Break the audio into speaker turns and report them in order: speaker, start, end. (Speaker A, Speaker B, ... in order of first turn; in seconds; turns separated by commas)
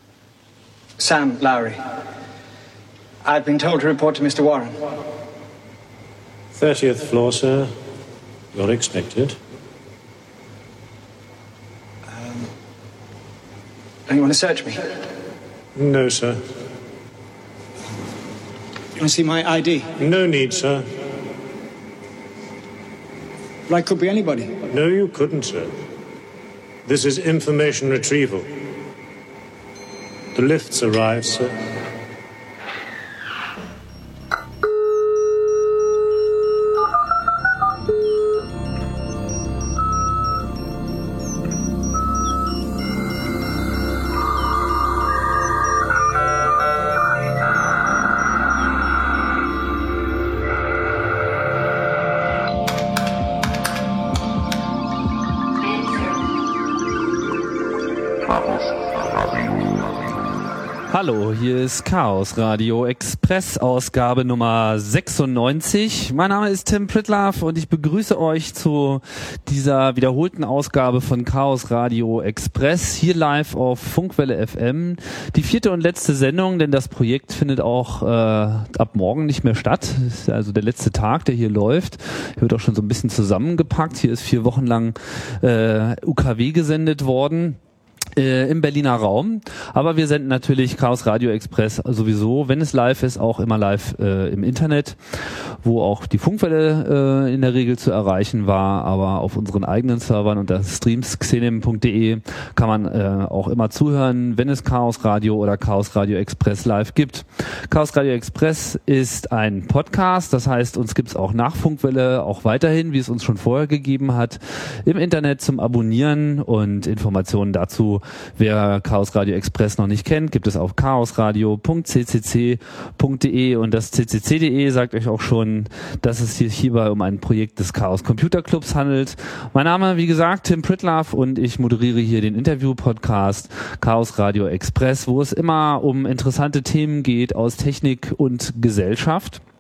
Speaker A: 1.0-1.8, Speaker A: 3.2-4.8, Speaker B: 6.5-7.7, Speaker B: 8.5-9.4, Speaker A: 14.1-14.9, Speaker B: 15.8-16.4, Speaker A: 19.0-19.9, Speaker B: 20.0-20.9, Speaker A: 23.7-24.6, Speaker B: 24.7-25.7, Speaker B: 26.9-28.5, Speaker B: 30.4-31.5, Speaker C: 60.9-87.6, Speaker C: 88.2-139.4